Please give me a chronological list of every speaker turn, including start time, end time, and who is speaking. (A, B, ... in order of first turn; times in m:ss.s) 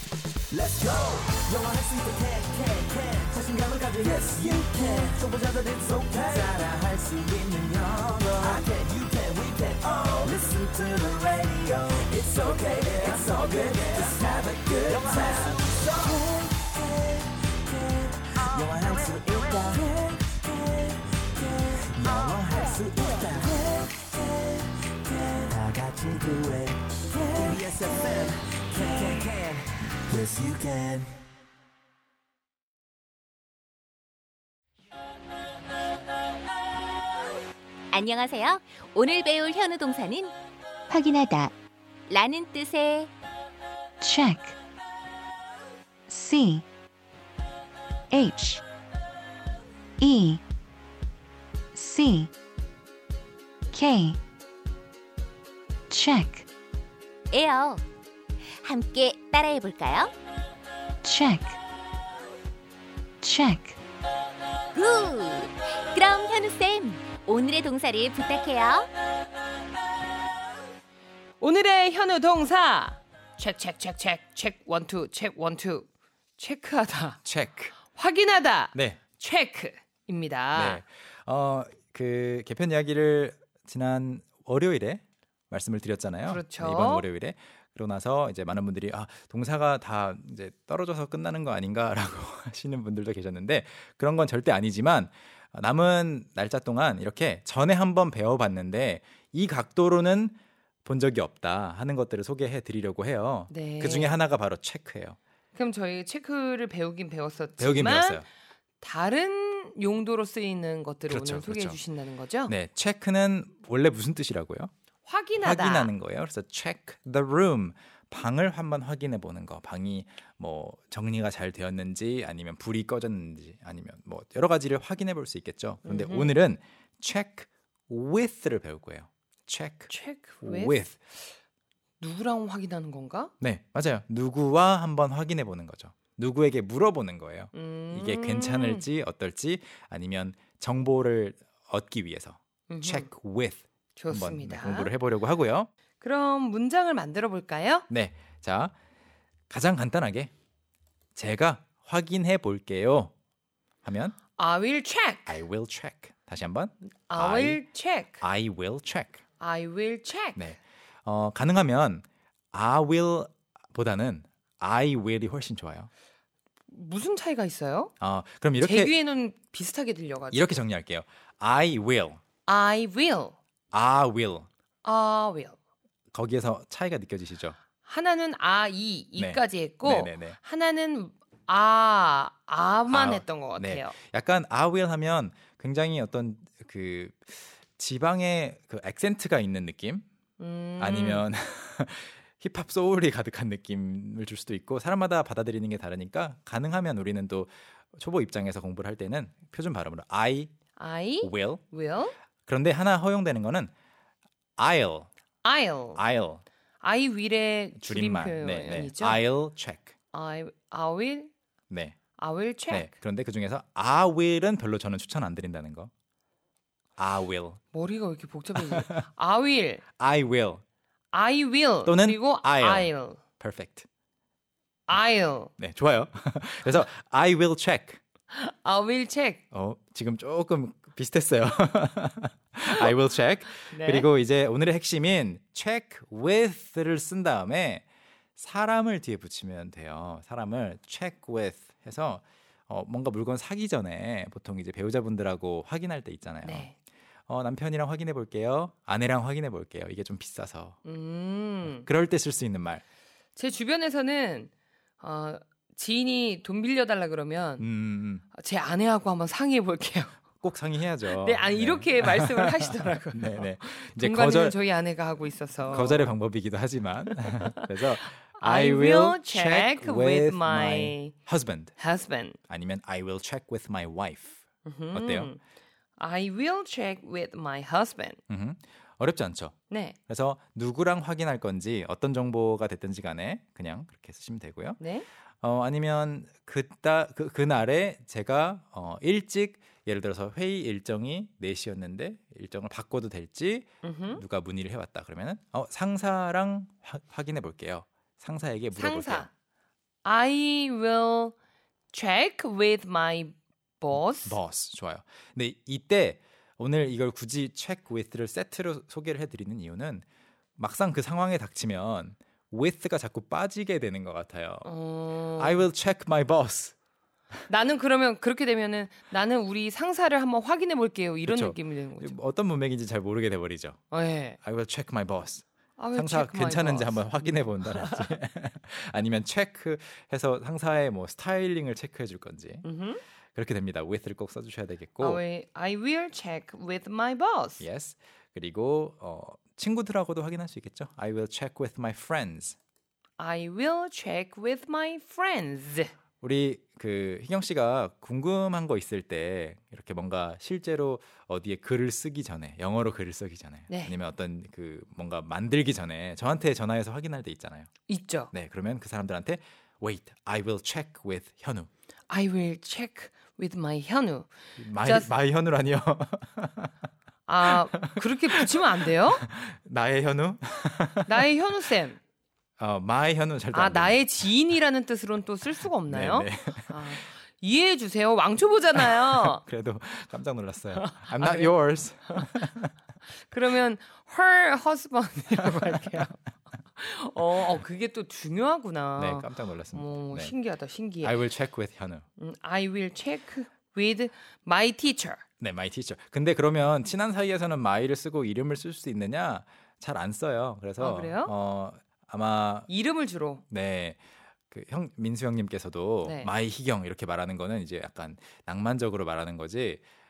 0:00.5-0:16.5 A
0:17.7-0:24.2 A
0:25.1-0:31.1 A
0:37.9-0:40.3 B
0:40.9-0:41.5 C
0:42.1-0:43.1 B
0:44.0-0:44.6 C
0:46.1-0:46.6 C
0:48.1-0:48.6 C
0:50.0-0:50.4 C
0:51.7-0:52.3 C
0:53.7-0:54.2 C
0:55.9-0:56.5 C
0:57.3-0:57.8 B
0:58.6-1:00.1 B
1:01.0-1:01.6 C
1:03.2-1:03.8 C
1:04.7-1:08.9 B
1:11.4-1:17.2 D
1:17.2-1:17.8 E
1:17.9-1:20.8 D
1:18.7-1:19.0 E
1:20.5-1:45.2 E
1:26.3-1:27.0 D
1:43.5-1:44.2 D
1:45.5-1:48.2 D
1:47.6-1:48.3 E
1:48.8-1:52.5 D
1:51.1-1:51.8 E
1:52.5-1:54.7 E
1:55.0-1:55.9 D
1:55.4-2:09.9 E
2:05.8-2:06.3 D
2:09.9-2:10.9 D
2:10.4-2:10.9 E
2:12.0-2:13.3 D
2:13.4-2:25.7 E
2:17.5-2:18.8 D
2:22.7-2:23.1 D
2:24.0-2:24.9 D
2:26.0-2:27.9 D
2:27.9-2:28.7 E
2:29.5-2:30.3 E
2:31.2-2:33.1 E
2:33.8-2:34.2 E
2:34.4-2:35.4 D
2:35.3-2:37.6 E
2:37.1-2:38.2 D
2:38.2-2:39.2 E
2:39.4-2:40.5 D
2:40.4-2:45.9 E
2:46.7-2:47.9 D
2:48.0-2:48.9 E
2:48.6-2:50.6 D
2:50.3-2:52.2 E
2:52.4-2:53.4 D
2:53.7-2:54.5 E
2:54.8-2:55.6 D
2:56.1-2:57.6 E
2:57.8-3:04.0 D
2:59.2-3:00.4 E
3:02.9-3:10.0 E
3:10.4-3:11.2 D
3:10.8-3:20.5 E
3:20.8-3:22.1 D
3:21.2-3:21.6 E
3:22.5-3:23.7 E
3:24.6-3:25.1 E
3:25.4-3:26.0 D
3:25.9-3:26.4 E
3:26.8-3:29.2 D
3:27.8-3:29.9 E
3:30.1-3:31.3 D
3:31.7-3:32.0 E
3:32.2-3:32.9 D
3:32.7-3:35.9 E
3:37.0-3:37.6 E
3:37.7-3:39.8 D
3:38.6-3:39.0 E
3:40.0-3:40.6 E
3:41.1-3:43.2 D
3:41.8-3:43.8 E
3:44.9-3:45.5 D
3:45.6-3:48.0 E
3:48.3-3:49.4 D
3:49.5-3:57.8 E
3:53.7-3:54.1 D
3:58.4-4:06.7 E
4:06.4-4:06.7 D
4:07.3-4:10.8 E
4:10.8-4:11.9 D
4:11.6-4:12.8 E
4:13.4-4:17.7 D
4:17.6-4:18.2 E
4:18.3-4:20.2 D
4:20.4-4:24.6 E
4:21.1-4:26.1 D
4:25.7-4:31.8 E
4:27.6-4:31.2 D
4:31.8-4:32.4 D
4:32.5-4:34.4 E
4:34.6-4:35.4 D
4:34.9-4:35.3 E
4:36.0-4:38.2 D
4:38.3-4:39.6 E
4:39.7-4:40.0 D
4:40.1-4:44.8 E
4:44.8-4:45.0 D
4:45.4-4:59.3 E
4:53.8-4:54.2 D
4:58.7-4:59.3 D
5:00.0-5:01.3 D
5:01.9-5:04.4 D
5:04.2-5:10.0 E
5:10.6-5:14.7 E
5:14.6-5:15.6 D
5:15.3-5:16.7 E
5:17.5-5:22.2 D
5:21.2-5:23.8 E
5:23.9-5:24.4 D
5:24.4-5:32.6 E
5:25.8-5:28.1 D
5:32.6-5:33.0 D
5:33.3-5:35.2 E
5:35.0-5:37.6 D
5:37.6-5:42.6 E
5:43.2-5:45.9 D
5:46.2-5:57.7 E
5:53.7-5:54.0 D
5:57.9-5:58.3 D
5:58.3-6:01.7 E
6:02.1-6:05.1 D
6:04.6-6:06.7 E
6:07.2-6:09.2 D
6:07.4-6:11.3 E
6:11.1-6:12.0 D
6:12.6-6:14.0 E
6:13.5-6:19.4 D
6:15.9-6:16.9 E
6:18.7-6:22.7 E
6:20.8-6:21.6 D
6:23.3-6:26.2 D
6:25.3-6:26.1 E
6:26.7-6:31.2 D
6:29.0-6:30.3 E
6:31.0-6:32.0 E
6:32.2-6:35.2 D
6:35.4-6:42.7 E
6:40.8-6:41.3 D
6:42.7-6:43.4 D
6:43.5-6:44.0 E
6:44.5-6:49.8 E
6:46.0-6:46.3 D